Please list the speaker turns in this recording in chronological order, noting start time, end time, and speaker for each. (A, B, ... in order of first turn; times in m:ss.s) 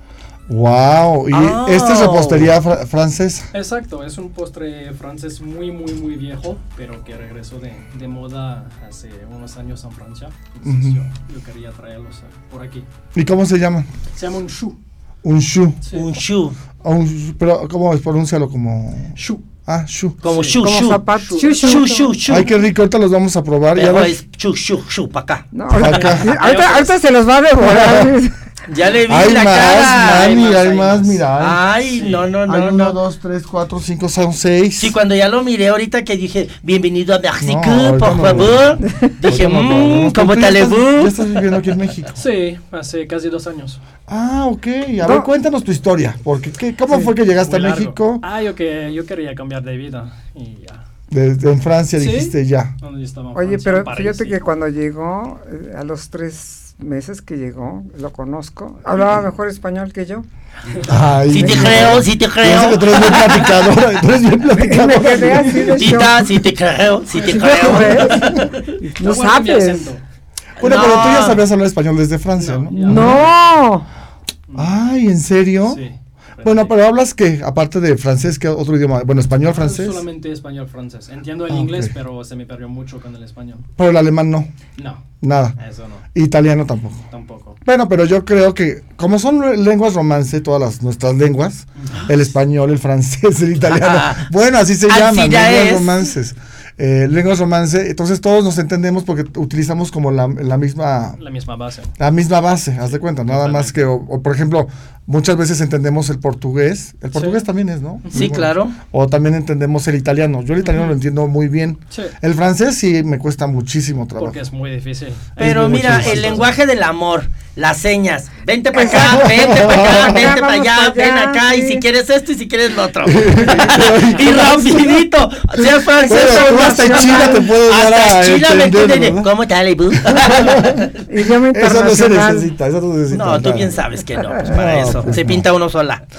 0:00.5-0:03.5 A
0:01.3-0:02.5 B
0:03.5-0:12.9 C
0:10.6-0:11.0 A
0:13.1-0:13.9 A
0:14.1-0:14.8 C
0:15.2-0:15.8 A
0:15.9-0:16.6 B
0:16.8-0:19.1 A
0:19.2-0:19.4 C
0:19.7-0:20.2 A
0:20.2-0:22.5 B
0:20.2-0:22.1 C
0:20.6-0:22.1 D
0:22.2-0:24.2 A
0:23.8-0:25.4 B
0:25.5-0:28.4 D
0:25.8-0:26.3 A
0:25.8-0:26.9 C
0:27.6-0:28.1 A
0:28.7-0:33.0 B
0:29.1-0:31.6 A
0:30.1-0:31.2 C
0:31.9-0:32.3 C
0:32.4-0:34.9 A
0:34.8-0:41.4 B
0:37.4-0:42.2 A
0:42.2-0:43.8 C
0:44.1-0:48.2 A
0:45.0-0:45.3 D
0:46.9-0:50.8 C
0:51.1-0:52.7 A
0:51.9-0:54.4 C
0:53.3-1:00.2 D
1:00.8-1:05.8 A
1:01.3-1:03.7 B
1:01.4-1:02.0 D
1:04.5-1:06.2 D
1:05.4-1:06.0 C
1:05.8-1:08.6 B
1:07.2-1:09.9 D
1:07.2-1:08.3 C
1:08.9-1:10.0 C
1:10.6-1:11.4 B
1:10.6-1:13.2 A
1:12.4-1:13.3 C
1:12.7-1:13.9 D
1:14.6-1:15.8 A
1:15.6-1:16.7 C
1:16.4-1:20.0 A
1:19.4-1:23.6 C
1:21.5-1:21.9 A
1:23.8-1:24.5 A
1:24.8-1:25.0 C
1:25.2-1:25.6 A
1:25.6-1:26.0 C
1:26.1-1:27.0 A
1:27.1-1:27.6 C
1:27.6-1:41.2 A
1:31.8-1:32.2 C
1:33.7-1:34.2 B
1:34.9-1:36.0 B
1:41.2-1:41.9 C
1:42.0-1:54.4 A
1:43.3-1:43.8 C
1:47.1-1:47.4 C
1:48.0-1:48.3 C
1:48.1-1:48.7 B
1:50.6-1:50.9 C
1:54.2-1:56.5 C
1:55.4-1:56.5 A
1:55.4-2:10.9 B
1:58.7-2:01.8 D
1:59.1-2:00.2 A
2:03.0-2:04.9 A
2:05.6-2:07.4 D
2:06.0-2:09.3 A
2:10.0-2:10.9 A
2:11.1-2:12.5 D
2:11.5-2:13.8 A
2:13.1-2:16.0 B
2:14.4-2:15.4 A